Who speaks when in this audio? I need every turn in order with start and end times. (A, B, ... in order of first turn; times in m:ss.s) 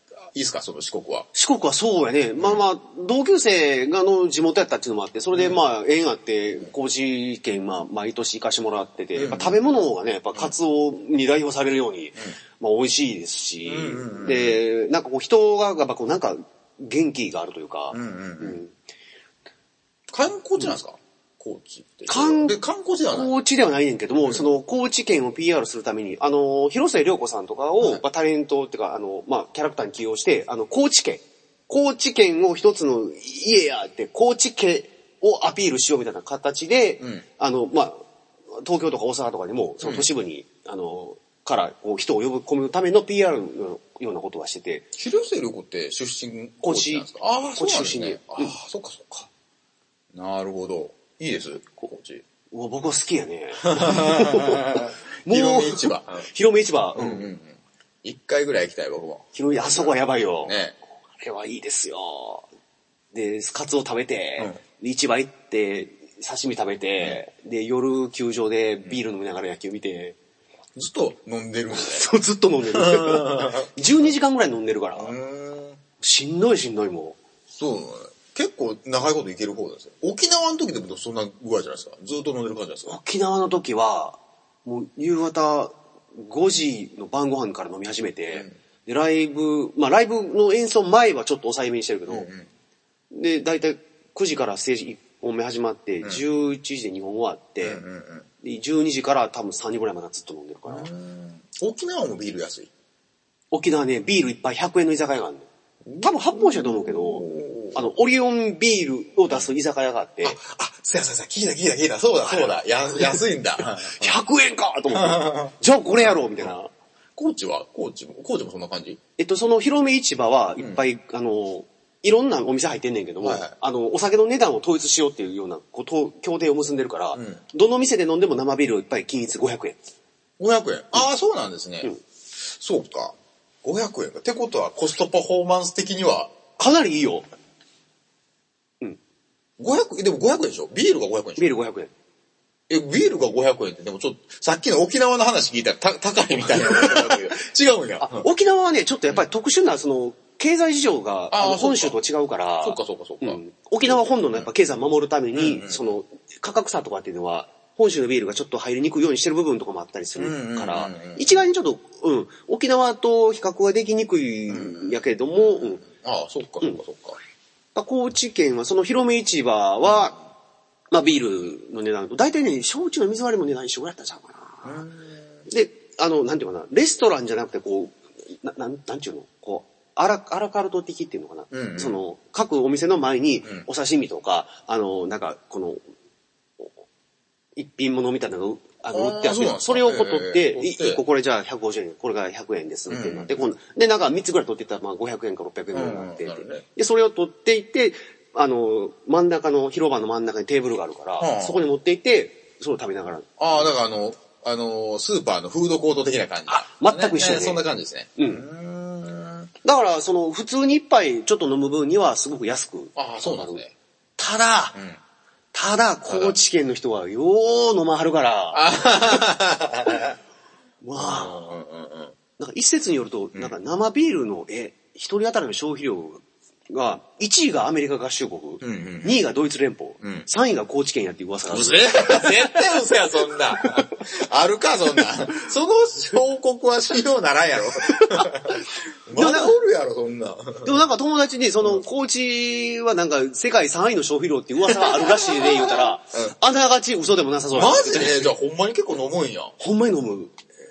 0:00.3-0:01.3 A
0:01.3-0:18.7 B
0:05.3-0:05.6 A
0:09.2-0:09.6 A
0:13.6-0:14.6 A
0:17.9-0:18.6 A
0:20.1-0:23.3 A
0:22.1-0:22.6 B
0:23.1-0:38.0 B
0:38.6-0:44.8 B
0:39.8-0:40.1 A
0:45.0-0:49.3 A
0:46.6-0:48.5 B
0:50.1-0:52.2 A
0:52.5-0:57.3 B
0:53.6-0:56.3 A
0:57.0-1:00.8 A
0:59.3-1:00.5 B
1:01.2-1:02.4 B
1:03.1-1:10.2 B
1:10.8-1:12.1 A
1:11.7-1:15.1 B
1:12.7-1:13.7 A
1:15.0-1:15.8 A
1:16.0-1:17.2 B
1:17.5-1:23.0 A
1:22.8-1:32.3 B
1:32.1-1:32.5 A
1:33.1-1:37.8 B
1:37.6-1:38.3 A
1:38.4-1:40.9 B
1:40.7-1:42.7 A
1:43.5-1:45.5 B
1:45.8-1:47.9 A
1:46.0-1:50.4 B
1:50.2-1:54.2 A
1:52.2-1:56.7 B
1:54.9-1:56.5 A
1:57.2-1:59.0 A
1:59.2-2:09.8 B
2:03.2-2:03.5 A
2:07.1-2:07.4 A
2:10.4-2:16.3 A
2:16.6-2:17.2 B
2:19.6-2:21.5 A
2:21.4-2:21.9 B
2:22.7-2:28.3 A
2:26.5-2:27.1 B
2:28.0-2:45.8 B
2:31.3-2:32.0 A
2:32.6-2:34.5 A
2:35.4-2:35.8 A
2:40.2-2:41.5 A
2:44.5-2:47.2 A
2:47.7-2:50.2 B
2:50.9-2:54.8 B
2:54.6-2:55.4 A
2:55.5-3:05.8 B
3:01.5-3:02.0 A
3:07.6-3:23.7 B
3:08.9-3:11.0 A
3:12.9-3:13.4 A
3:15.7-3:16.6 A
3:21.2-3:21.6 A
3:23.4-3:29.5 A
3:26.5-3:27.6 B
3:28.2-3:28.4 B
3:29.6-3:33.6 B
3:33.0-3:33.7 A
3:34.2-3:34.8 B
3:35.5-3:39.3 B
3:36.1-3:36.4 A
3:38.5-3:40.2 A
3:40.8-3:41.5 B
3:41.0-3:42.2 A
3:42.4-3:52.6 B
3:48.6-3:49.2 A
3:51.5-4:00.8 A
3:53.6-3:53.8 B
3:57.9-3:58.3 B
3:59.1-3:59.5 B
4:00.6-4:08.2 B
4:04.6-4:06.3 A
4:07.5-4:09.5 A
4:09.6-4:10.3 B